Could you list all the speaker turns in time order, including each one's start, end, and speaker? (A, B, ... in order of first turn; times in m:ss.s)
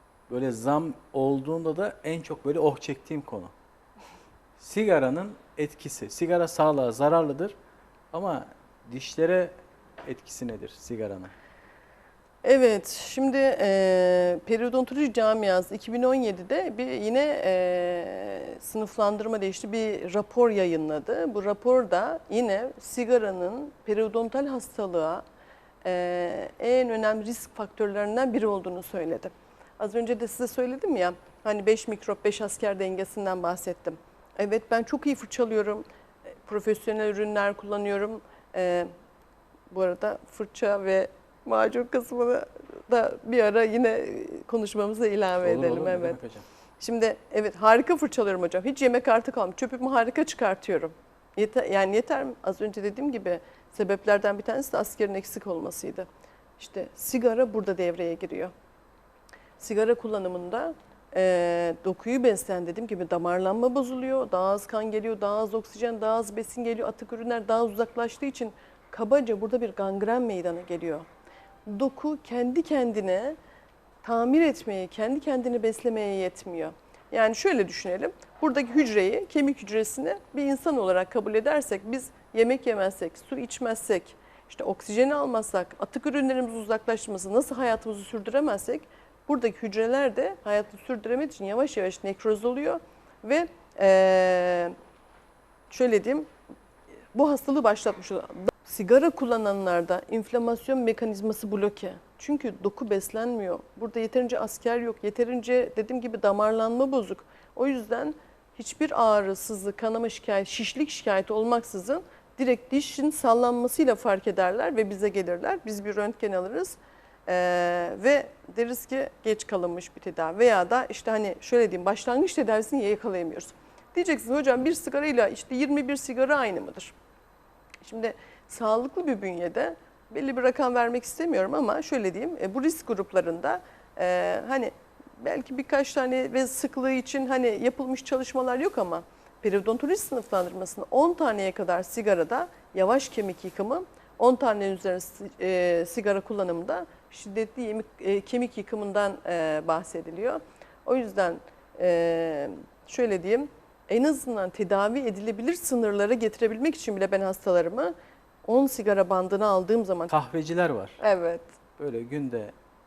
0:00.3-0:03.5 A
0:04.6-0:07.6 A
0:08.1-0:09.5 A
0:10.1-0:11.3 A
0:12.4-0:25.2 B
0:25.8-0:35.8 B
0:36.4-0:38.9 B
0:39.7-0:46.2 B
0:45.4-0:46.5 A
0:46.8-0:56.1 B
0:56.6-0:58.5 B
0:59.6-1:11.1 B
1:11.7-1:13.4 B
1:14.0-1:34.8 B
1:35.7-1:36.3 B
1:37.1-2:06.9 B
2:07.8-2:37.9 B
2:38.4-2:40.1 B
2:40.1-2:41.0 A
2:41.0-2:41.5 B
2:41.8-2:42.5 A